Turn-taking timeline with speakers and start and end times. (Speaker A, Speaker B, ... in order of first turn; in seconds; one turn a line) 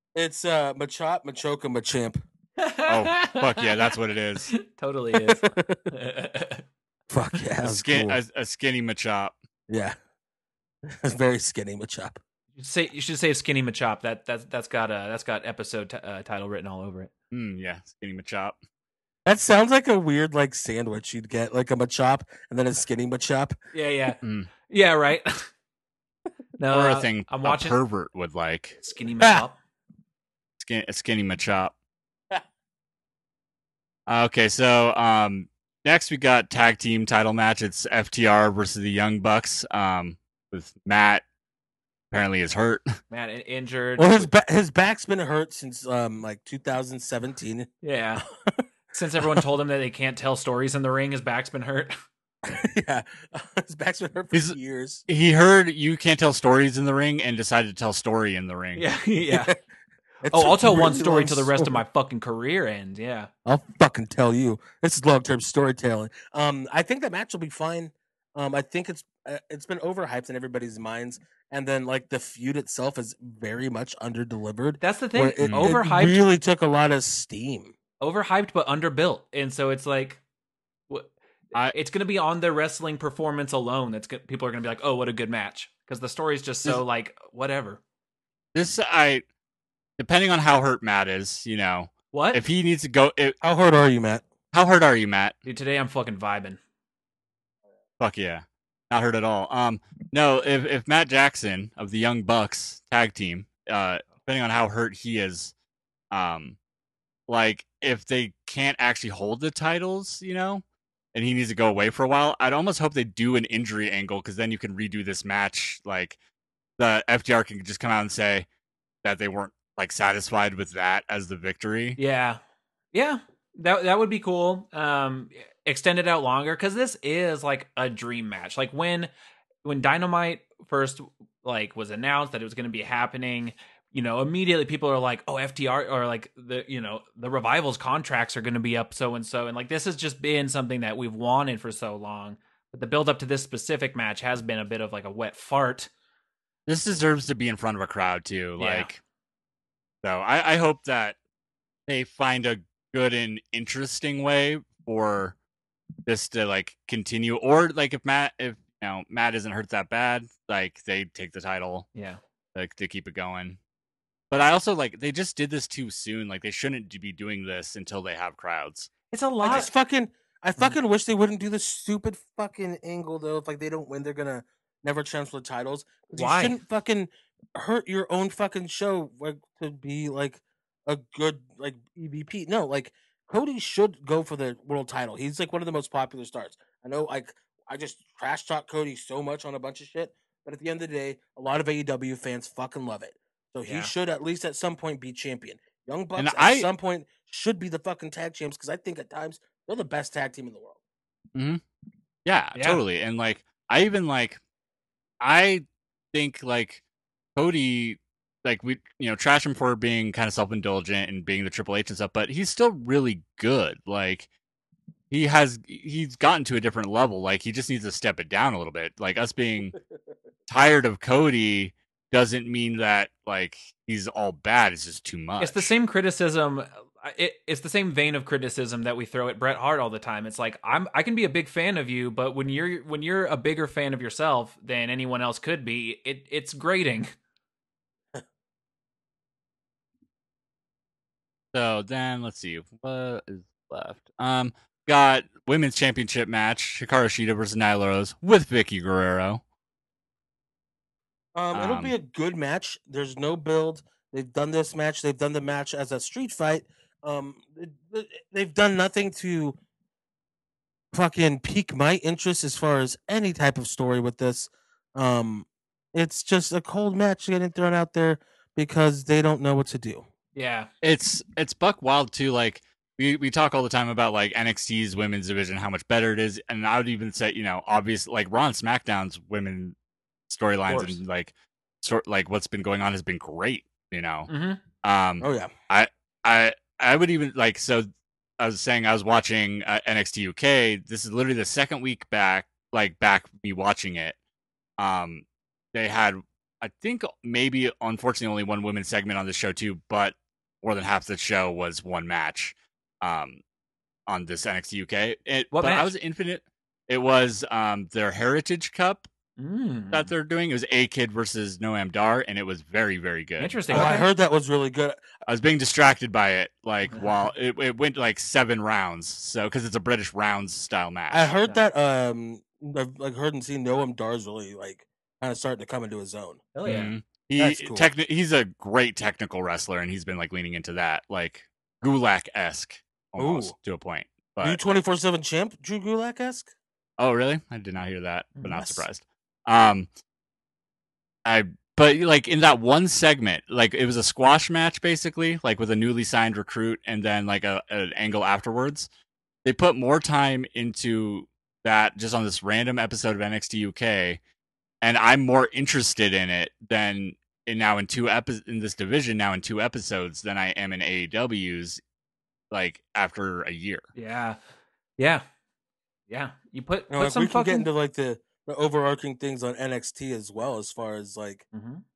Speaker A: 0.1-2.2
Speaker B: 2.6-3.9
Speaker C: 2.9-4.5
Speaker B: 4.5-6.6
Speaker A: 5.1-5.8
Speaker A: 7.1-8.2
Speaker C: 7.6-9.3
Speaker A: 9.7-9.9
Speaker A: 10.8-12.2
Speaker B: 12.5-17.1
Speaker C: 17.3-18.6
Speaker A: 19.2-23.6
Speaker B: 23.7-25.5
Speaker C: 24.2-24.5
Speaker B: 26.6-27.8
Speaker C: 26.7-28.8
Speaker B: 28.8-29.6
Speaker C: 30.6-31.7
Speaker C: 34.1-41.2
Speaker C: 42.1-42.9
Speaker B: 43.1-44.3
Speaker A: 44.0-48.6
Speaker B: 47.8-48.2
Speaker B: 48.9-51.9
Speaker A: 52.4-55.0
Speaker C: 55.1-58.8
Speaker B: 58.7-59.5
Speaker A: 59.3-59.6
Speaker A: 60.2-61.8
Speaker B: 60.3-63.3
Speaker A: 63.4-77.7
Speaker B: 74.8-76.2
Speaker C: 75.4-75.7
Speaker B: 78.0-80.2
Speaker B: 80.9-87.8
Speaker C: 88.5-89.2
Speaker C: 90.0-93.4
Speaker B: 92.1-92.4
Speaker A: 93.4-94.2
Speaker C: 94.5-95.3
Speaker B: 95.4-96.6
Speaker C: 98.0-105.5
Speaker C: 106.1-106.6
Speaker C: 107.3-110.6
Speaker C: 111.1-116.2
Speaker C: 116.8-118.5
Speaker C: 119.0-122.0
Speaker B: 122.0-122.4
Speaker B: 122.9-129.1
Speaker B: 129.6-145.9
Speaker C: 146.7-149.0
Speaker B: 148.6-148.9
Speaker C: 150.0-151.2
Speaker C: 151.9-155.3
Speaker C: 156.1-161.9
Speaker B: 161.9-162.2
Speaker C: 162.5-163.6
Speaker C: 164.3-168.9
Speaker B: 169.1-169.7
Speaker A: 169.4-200.8
Speaker B: 176.1-176.6
Speaker B: 193.6-193.9
Speaker C: 196.2-196.7
Speaker C: 201.3-201.6
Speaker C: 202.2-204.4
Speaker B: 202.5-202.8
Speaker C: 205.2-206.8
Speaker C: 207.3-214.3
Speaker C: 215.1-219.8
Speaker C: 220.5-225.7
Speaker B: 225.4-237.1
Speaker C: 241.5-249.4
Speaker A: 251.3-259.6
Speaker C: 251.5-251.9
Speaker A: 260.9-270.0
Speaker B: 270.3-270.7
Speaker C: 270.8-279.7
Speaker C: 280.3-284.3
Speaker B: 280.7-281.0
Speaker B: 284.3-284.6
Speaker C: 284.8-287.9
Speaker A: 285.2-285.5
Speaker C: 288.4-294.1
Speaker C: 294.8-303.4
Speaker C: 304.1-309.1
Speaker B: 305.5-305.9
Speaker B: 309.4-310.1
Speaker C: 309.9-313.9
Speaker B: 313.4-314.1
Speaker A: 313.7-315.0
Speaker C: 315.2-321.3
Speaker B: 316.9-317.3
Speaker A: 321.1-326.4
Speaker B: 326.5-326.9
Speaker C: 326.6-334.6
Speaker A: 327.4-327.9
Speaker A: 333.2-333.5
Speaker A: 334.4-336.5
Speaker C: 337.0-339.9
Speaker B: 338.4-338.8
Speaker C: 341.2-348.9
Speaker C: 349.4-354.2
Speaker C: 354.8-361.8
Speaker C: 362.5-363.9
Speaker B: 363.9-364.4
Speaker B: 365.0-365.2
Speaker B: 366.1-367.7
Speaker A: 366.9-371.4
Speaker B: 371.5-371.8